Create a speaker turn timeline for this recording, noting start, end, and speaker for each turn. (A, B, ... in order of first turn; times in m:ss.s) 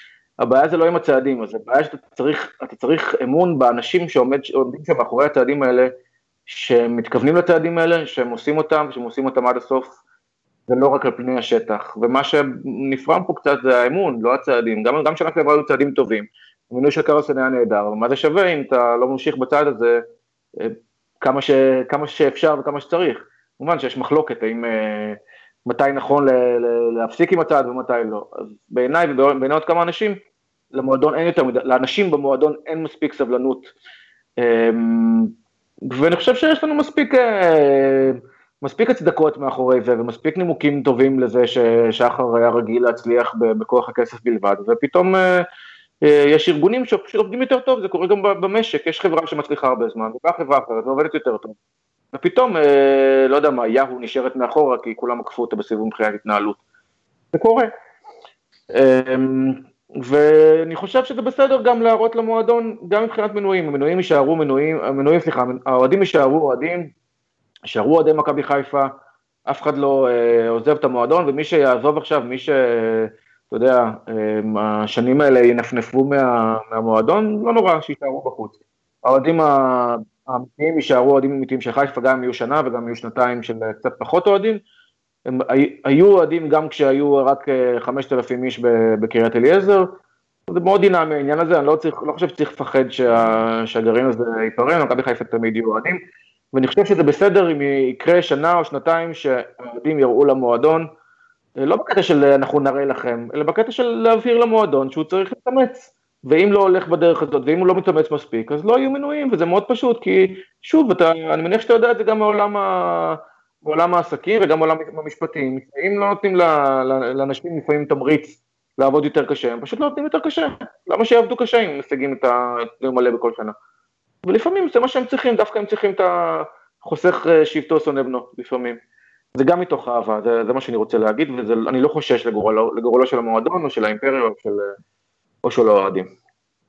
0:00.4-0:05.9 A
0:06.5-0:09.9 A
0:10.7-0:20.0 A
0:20.6-0:30.2 A
0:30.7-0:33.7 A
0:34.4-0:35.3 A
0:35.9-0:45.4 A
0:46.0-0:51.5 A
0:52.1-0:56.6 A
0:57.3-0:57.7 A
0:58.7-1:06.9 A
1:07.7-1:08.9 A
1:09.5-1:24.6 A
1:25.3-1:29.9 A
1:30.5-1:36.0 A
1:36.5-1:40.9 A
1:41.6-2:03.5 A
2:04.2-2:08.8 A
2:09.4-2:14.6 A
2:15.4-2:16.1 A